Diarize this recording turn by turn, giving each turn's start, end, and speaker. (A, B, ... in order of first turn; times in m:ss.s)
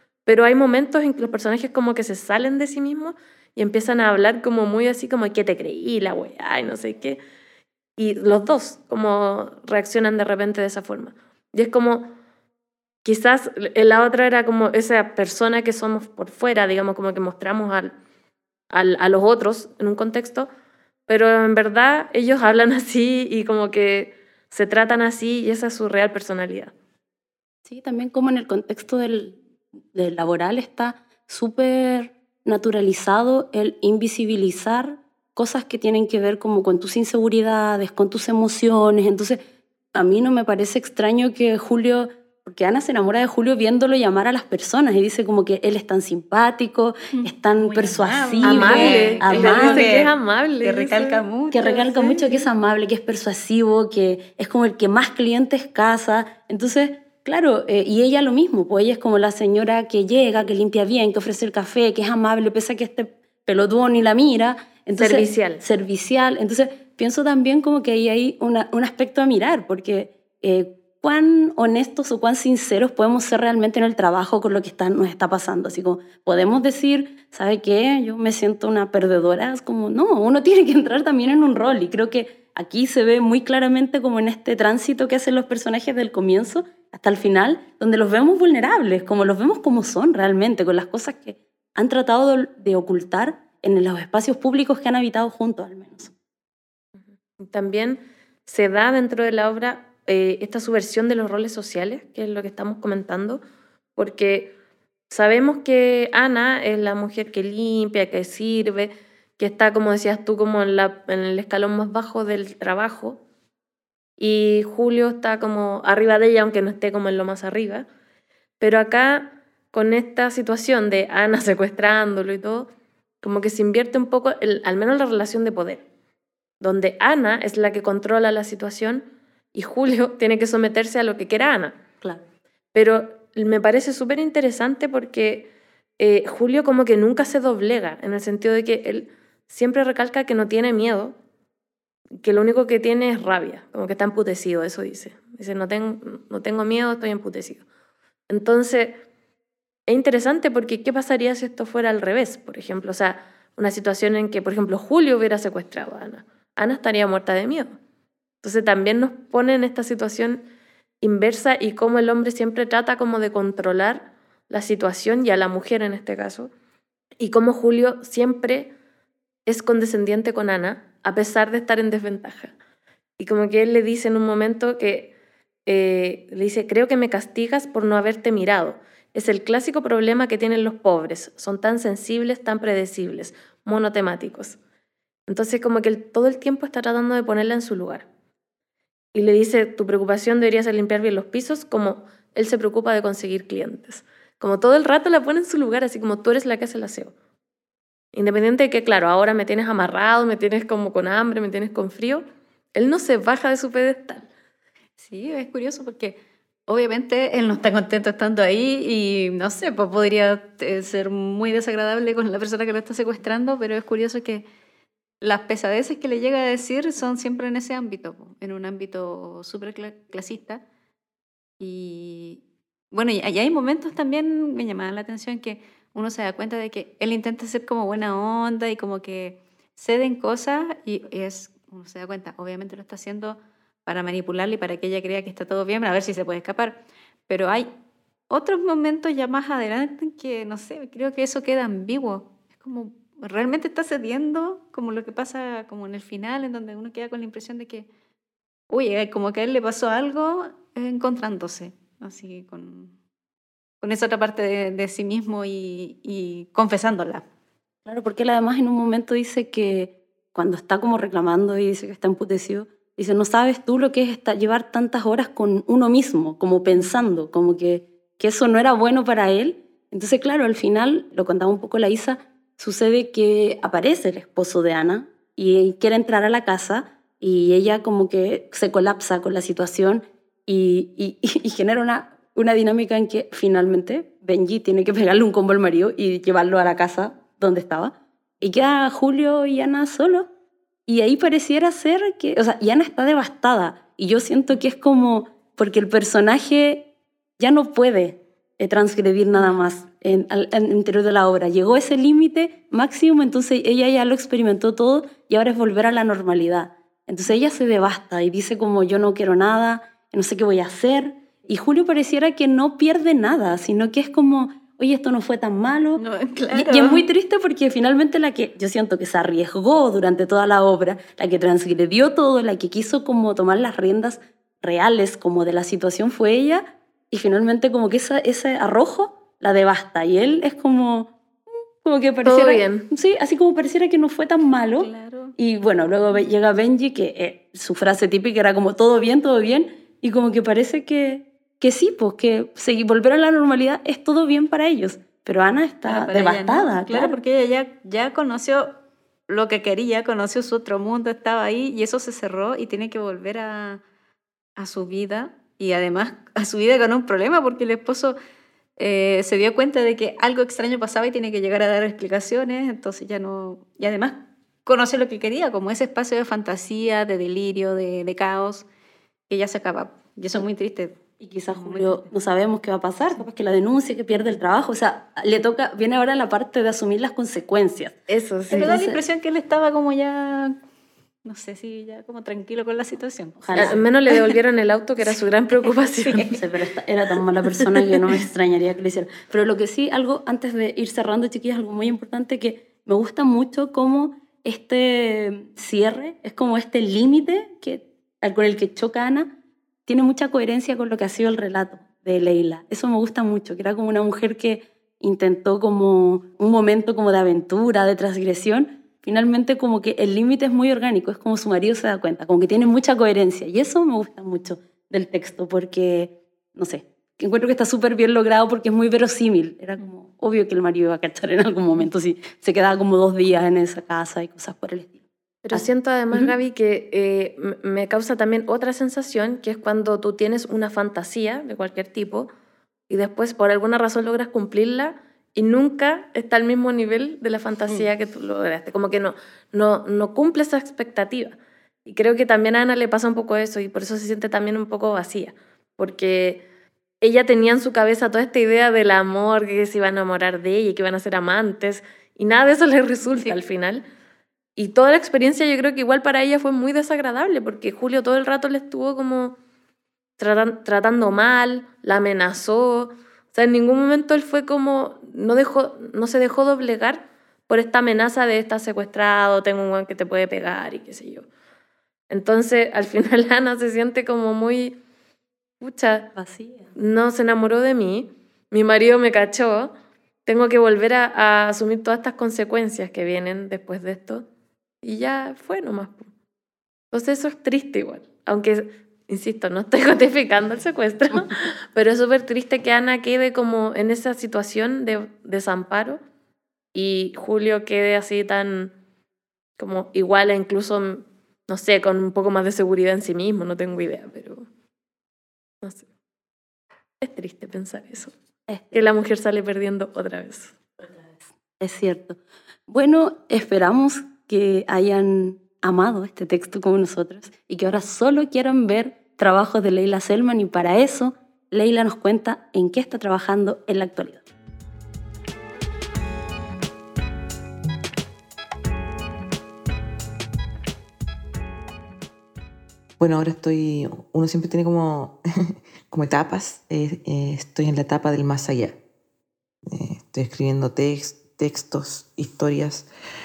0:00.2-0:07.2 A
0:08.0-0:12.1 A
0:13.0-0:17.9 A
0:18.7-0:20.5 A
0:21.1-0:26.7 A
0:27.6-0:29.4 B
0:29.9-0:39.4 B
0:39.9-0:50.0 B
0:47.1-0:52.5 C
0:48.4-0:51.2 A
0:51.5-1:36.1 B
1:05.0-1:05.6 A
1:37.4-1:43.4 A
1:44.0-1:44.5 A
1:45.1-1:53.2 A
1:54.2-1:57.8 A
1:58.6-2:02.7 A
2:03.2-2:05.8 A
2:06.6-2:11.8 A
2:12.7-2:21.1 A
2:22.2-2:27.6 A
2:28.3-2:29.0 A
2:29.9-2:37.8 A
2:38.4-2:40.4 A
2:41.0-2:46.5 A
2:47.2-2:48.7 A
2:49.5-2:52.5 A
2:53.2-2:55.1 A
2:55.6-3:04.6 A
3:05.3-3:08.0 A
3:09.1-3:17.1 A
3:18.1-3:24.2 A
3:25.0-3:26.2 C
3:26.7-3:34.4 C
3:35.2-3:40.6 C
3:41.6-3:57.7 C
3:58.3-4:07.9 C
4:08.7-4:12.9 C
4:13.8-4:17.2 C
4:17.8-4:50.3 B
4:50.9-4:56.9 B
4:57.4-5:31.1 B
5:16.0-5:17.0 C
5:31.8-5:47.2 B
5:32.2-5:32.9 A
5:34.8-5:35.3 C
5:45.8-5:48.7 C
5:49.3-5:53.8 C
5:54.6-5:58.2 C
5:58.8-6:08.6 C
6:09.3-6:11.0 C
6:11.2-6:18.0 B
6:11.5-6:12.1 C
6:18.1-6:18.9 A
6:18.5-6:20.6 C
6:18.5-6:19.0 B
6:21.2-6:23.8 C
6:23.4-6:23.8 B
6:23.5-6:26.4 A
6:26.0-6:26.4 C
6:26.3-6:39.3 B
6:39.8-7:06.3 B
7:05.4-7:12.3 A
7:12.9-7:26.4 A
7:27.0-7:33.8 A
7:34.6-7:39.4 A
7:40.2-7:51.2 A
7:52.1-7:54.8 A
7:55.6-7:56.1 A
7:56.1-7:56.7 B
7:56.8-7:59.7 A
8:00.2-8:04.2 A
8:04.8-8:06.1 A
8:06.9-8:16.0 A
8:16.7-8:18.7 A
8:19.6-8:24.4 A
8:27.0-8:28.1 A
8:28.5-8:28.8 B
8:28.7-8:30.5 A
8:31.2-8:44.2 B
8:53.0-8:55.2 D
8:55.9-8:58.8 D
8:59.7-9:02.9 D